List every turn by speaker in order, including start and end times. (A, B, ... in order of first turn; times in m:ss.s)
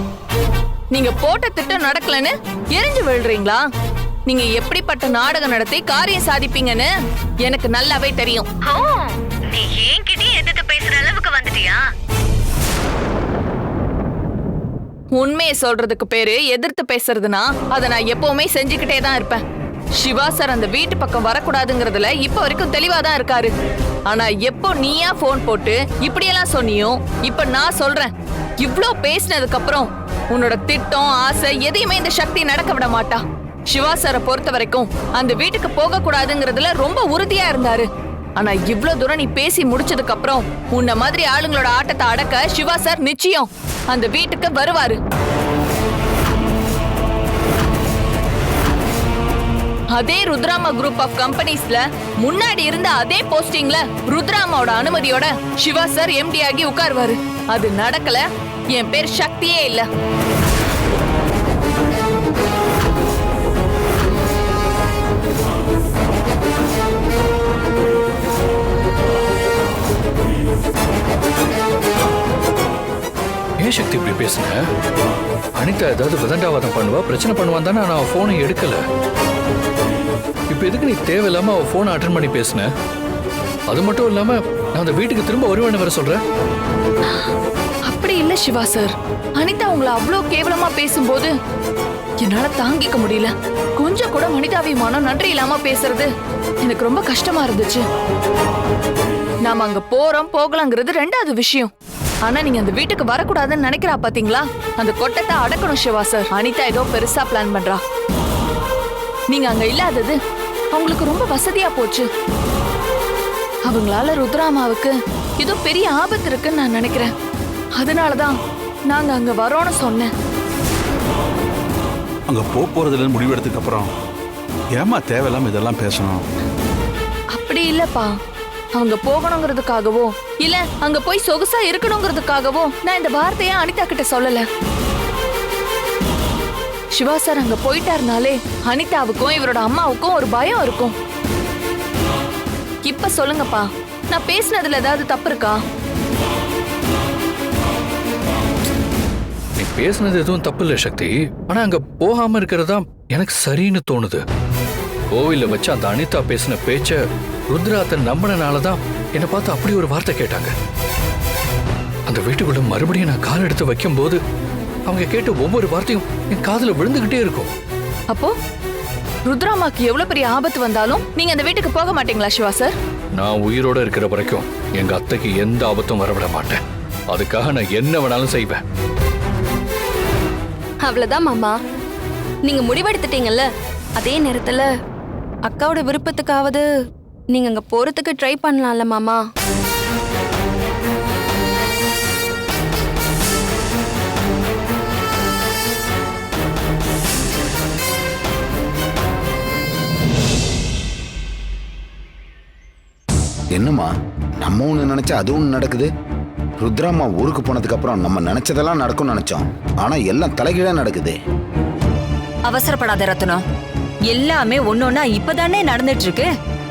0:00.9-0:03.6 A
0:04.3-0:06.9 A
0:07.4-0:08.4 A
0:08.6-0:11.8 B
0:15.1-0:19.4 A
0:20.0-0:23.5 A
0:24.1-0:37.9 A
0:38.4-0:45.0 A
0:49.9-0:59.9 A
1:13.6-1:14.6 C
1:15.6-1:18.8 C
1:20.5-1:22.7 C
1:23.7-1:26.2 C
1:27.9-1:31.3 A
1:32.2-1:36.1 A
1:36.6-1:37.8 A
1:39.4-1:41.7 A
1:42.2-1:47.8 A
1:49.3-1:50.2 A
1:50.7-1:52.1 A
1:53.7-1:57.1 A
1:57.8-1:58.4 A
1:58.9-2:00.1 A
2:02.3-2:03.9 D
2:04.8-2:06.2 D
2:07.3-2:08.1 A
2:08.8-2:14.4 A
2:17.0-2:20.9 A
2:22.8-2:25.6 A
2:29.6-2:34.2 C
2:35.1-2:40.5 C
2:42.1-2:44.2 C
2:44.9-2:47.5 C
2:49.3-2:52.7 A
2:53.2-2:58.6 C
3:00.8-3:01.6 E
3:02.4-3:03.4 E
3:04.0-3:04.7 E
3:05.4-3:06.6 E
3:07.3-3:09.2 E
3:23.5-3:25.9 F
3:26.6-3:31.2 F
3:32.5-3:33.4 G
3:34.1-3:36.3 G